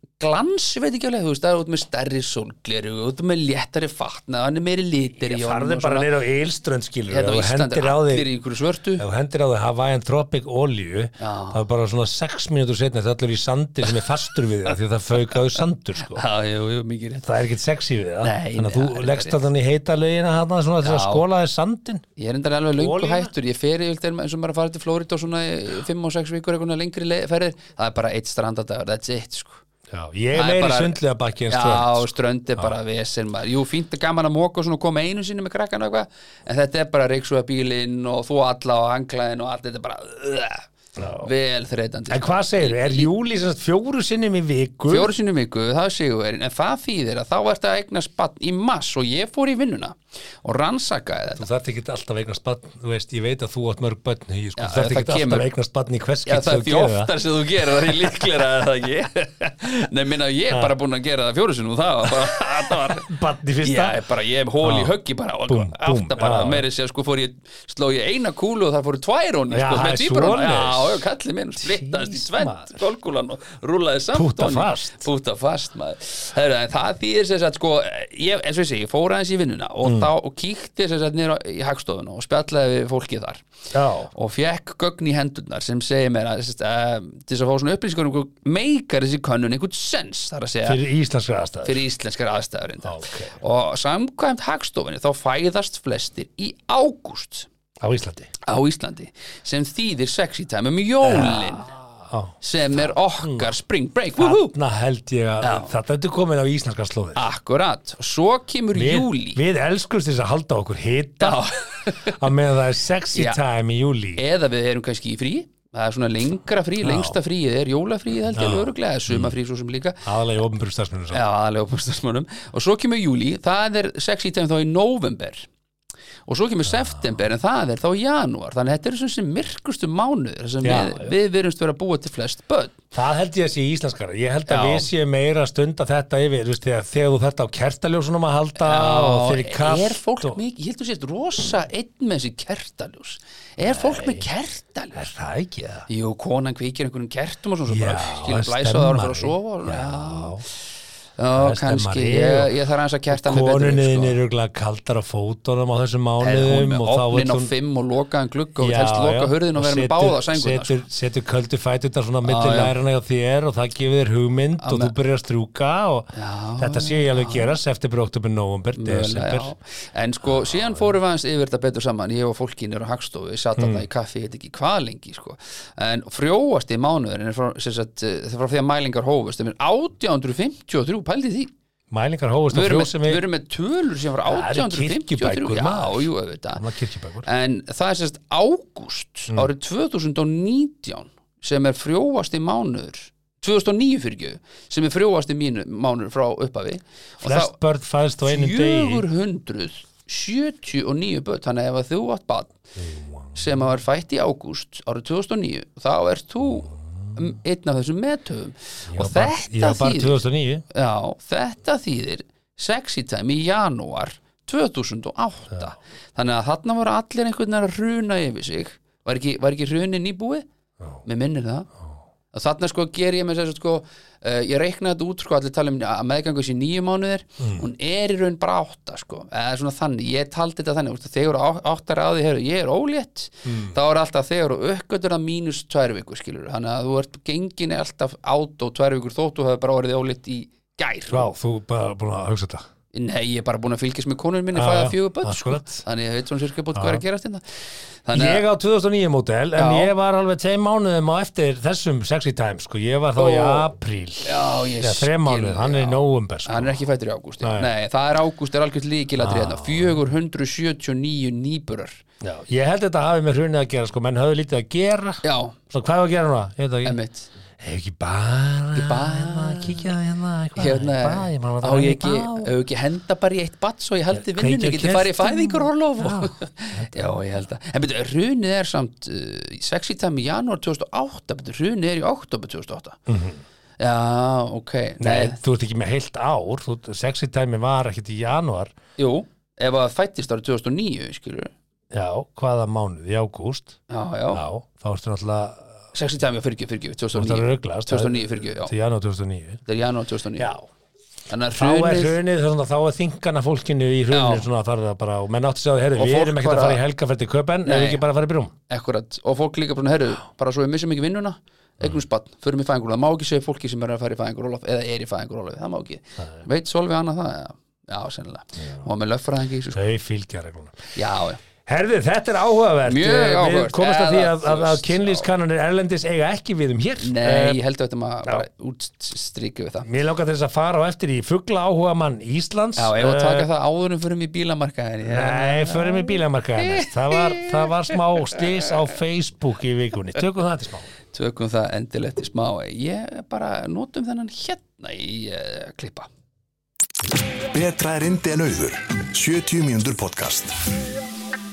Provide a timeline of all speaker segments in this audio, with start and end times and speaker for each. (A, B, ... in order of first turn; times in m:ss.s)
0:00.2-0:06.1 A
0:05.2-0:08.3 B
0:07.1-0:09.0 A
0:09.0-0:16.2 B
0:11.2-0:11.6 A
0:15.3-0:17.3 A
0:17.2-0:22.0 B
0:18.2-0:19.4 A
0:20.8-0:21.2 A
0:22.2-0:29.6 A
0:22.8-0:23.3 B
0:29.9-0:32.7 B
0:30.3-0:40.7 A
0:41.0-0:41.3 B
0:41.2-0:43.1 A
0:42.1-0:45.1 B
0:44.9-0:51.4 A
0:51.4-0:57.1 B
0:54.6-0:55.5 A
0:56.2-1:03.1 A
1:02.1-1:04.0 B
1:03.6-1:23.4 A
1:04.6-1:04.9 B
1:05.5-1:06.6 B
1:09.5-1:11.0 B
1:11.6-1:12.8 B
1:14.1-1:15.1 B
1:19.8-1:20.1 B
1:23.7-1:24.1 B
1:24.1-1:30.8 A
1:30.6-1:31.8 B
1:31.6-1:37.5 A
1:32.8-1:33.3 B
1:37.8-1:38.3 B
1:38.4-1:41.7 A
1:41.0-1:42.4 B
1:42.4-1:44.5 A
1:43.2-1:43.5 B
1:44.2-1:47.2 B
1:45.4-1:45.7 A
1:47.1-1:49.4 A
1:48.7-1:54.2 B
1:51.2-1:52.2 A
1:53.1-1:53.4 A
1:54.2-2:00.0 A
1:56.8-1:57.2 B
1:58.3-1:59.4 B
2:00.0-2:01.2 B
2:01.1-2:05.5 A
2:06.2-2:12.8 A
2:10.6-2:11.1 B
2:12.9-2:20.4 B
2:14.5-2:14.9 A
2:18.6-2:25.0 A
2:23.6-2:24.2 B
2:24.9-2:25.9 B
2:25.9-2:30.4 A
2:27.7-2:30.4 B
2:31.2-2:34.2 A
2:31.3-2:32.5 B
2:33.1-2:37.5 B
2:36.2-2:40.8 A
2:38.6-2:49.5 B
2:42.2-2:42.7 A
2:44.6-2:44.9 A
2:46.1-2:47.5 A
2:48.7-3:01.5 A
2:50.3-2:50.8 B
2:53.6-2:53.9 B
3:01.9-3:03.2 B
3:02.5-3:06.6 A
3:04.2-3:07.3 B
3:07.2-3:17.5 A
3:17.2-3:19.0 B
3:18.2-3:22.6 A
3:22.8-3:23.3 B
3:23.3-3:30.2 A
3:28.9-3:30.6 B
3:30.7-3:40.4 A
3:41.0-3:41.7 A
3:42.3-4:01.3 A
3:47.4-3:47.6 B
3:53.4-3:53.8 B
4:01.1-4:02.6 B
4:02.9-4:07.4 A
4:04.5-4:05.8 B
4:06.7-4:07.0 B
4:08.0-4:08.4 A
4:08.1-4:16.8 B
4:09.5-4:09.9 A
4:13.2-4:13.7 A
4:14.2-4:22.0 A
4:17.4-4:17.7 B
4:19.2-4:20.0 B
4:22.2-4:27.0 B
4:25.2-4:25.6 A
4:26.8-4:27.3 A
4:27.6-4:32.5 B
4:28.7-4:29.9 A
4:30.6-4:43.0 A
4:34.1-4:37.2 B
4:43.1-4:43.4 B
4:43.8-4:45.4 A
4:45.0-4:48.7 B
4:49.0-4:51.5 A
4:51.9-4:53.8 B
4:53.9-4:54.4 A
4:54.3-4:55.7 B
4:55.9-4:58.7 A
4:57.1-4:59.6 B
4:59.6-5:00.5 A
5:00.4-5:00.6 B
5:01.3-5:02.2 A
5:01.6-5:08.5 B
5:04.1-5:04.5 A
5:06.0-5:06.8 A
5:07.6-5:08.0 A
5:08.7-5:19.8 A
5:19.7-5:20.8 B
5:20.9-5:21.4 A
5:21.6-5:27.6 B
5:22.8-5:25.3 A
5:27.0-5:29.9 A
5:29.8-5:33.5 B
5:32.8-5:38.6 A
5:35.0-5:40.9 B
5:41.1-5:46.1 A
5:47.5-5:50.6 C